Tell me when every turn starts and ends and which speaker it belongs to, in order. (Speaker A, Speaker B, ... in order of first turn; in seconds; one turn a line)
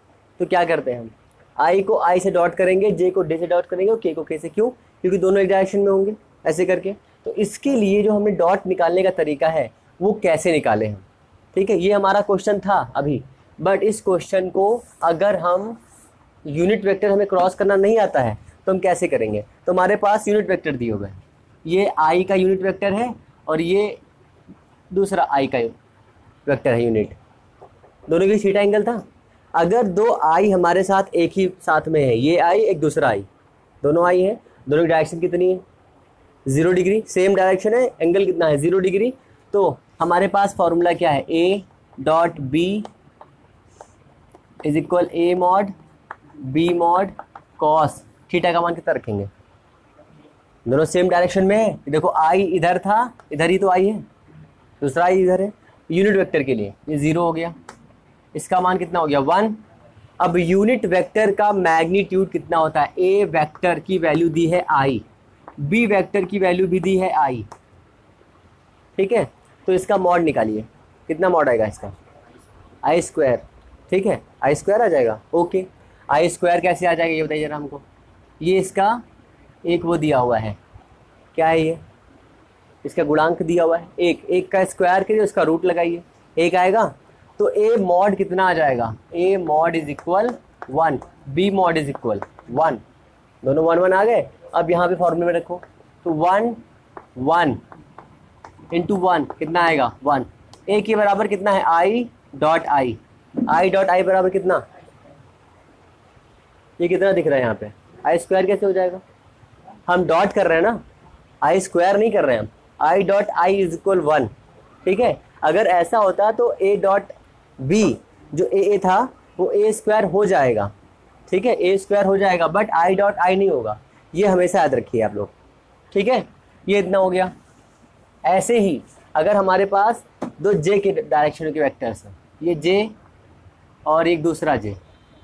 Speaker A: 0.4-15.8
Speaker A: 16.4-24.0
Speaker A: 24.9-25.8
Speaker A: 26.4-27.2
Speaker A: 28.1-33.3
Speaker A: 33.8-35.6
Speaker A: 36.5-42.9
Speaker A: 44.6-45.7
Speaker A: 46.4-49.3
Speaker A: 50.6-54.0
Speaker A: 54.8-57.5
Speaker A: 58.3-59.6
Speaker A: 60.2-65.0
Speaker A: 65.6-67.5
Speaker A: 69.0-71.9
Speaker A: 72.8-77.8
Speaker A: 78.4-79.0
Speaker A: 79.6-80.6
Speaker A: 81.3-81.8
Speaker A: 82.8-92.8
Speaker A: 93.4-96.6
Speaker A: 97.2-97.6
Speaker A: 98.7-104.6
Speaker A: 106.8-109.0
Speaker A: 109.9-110.8
Speaker A: 111.4-114.3
Speaker A: 114.8-120.7
Speaker A: 121.3-125.3
Speaker A: 125.9-127.3
Speaker A: 128.3-132.9
Speaker A: 133.9-134.8